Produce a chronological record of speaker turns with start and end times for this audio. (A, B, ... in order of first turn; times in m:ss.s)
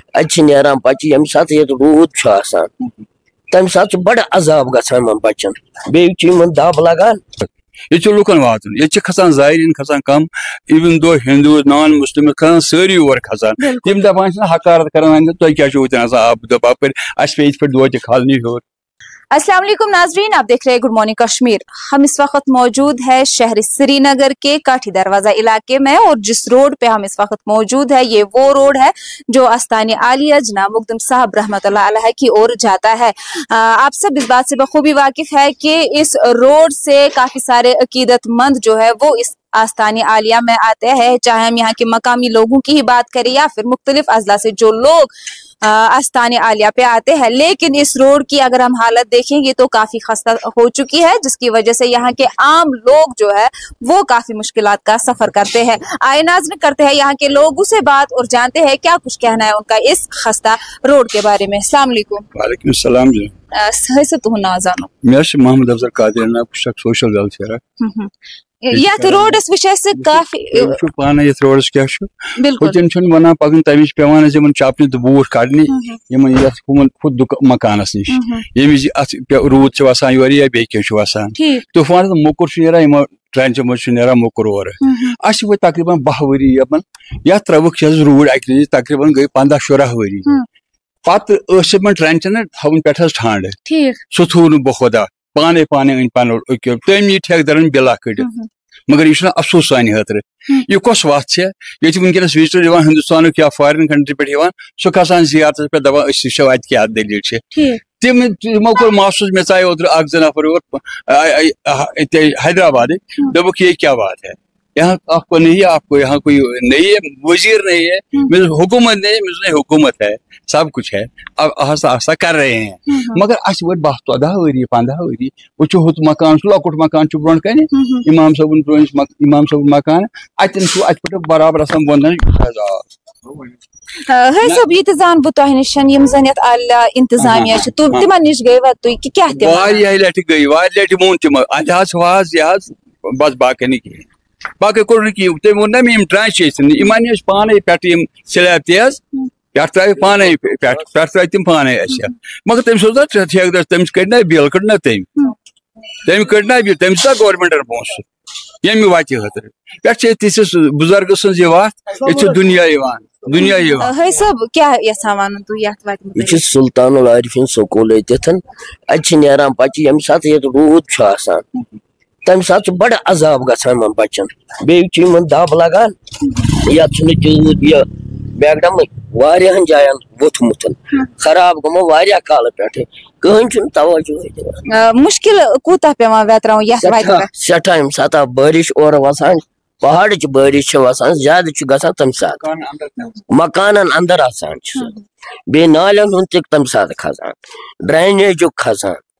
0:00.2-0:02.7 A
0:03.5-0:07.2 A
0:07.4-0:18.6 B
0:13.6-0:14.0 C
0:19.3-1:02.3 C
1:02.3-1:03.3 B
1:03.5-1:04.9 C
1:05.0-1:07.6 B
1:07.8-1:08.1 C
1:08.6-1:10.8 C
1:08.7-1:09.4 B
1:09.9-1:30.3 B
1:12.4-1:12.8 C
1:15.7-1:16.0 C
1:18.1-1:18.4 C
1:21.4-1:21.6 C
1:24.8-1:25.2 C
1:31.1-1:38.3 B
1:33.7-1:34.0 C
1:38.2-1:38.5 C
1:38.9-2:13.4 B
1:47.5-1:47.8 C
2:02.9-2:03.2 C
2:07.7-2:08.1 C
2:14.0-2:19.8 C
2:17.2-2:18.1 B
2:19.3-2:24.1 B
2:24.6-2:35.3 B
2:30.2-2:30.6 A
2:36.0-2:38.1 B
2:38.6-2:44.0 B
2:43.4-2:46.4 C
2:46.2-2:51.5 A
2:52.2-2:56.0 A
2:56.5-3:04.6 A
3:04.7-3:07.3 C
3:06.8-3:12.4 A
3:12.4-3:13.2 B
3:13.3-3:14.9 A
3:15.5-3:19.0 A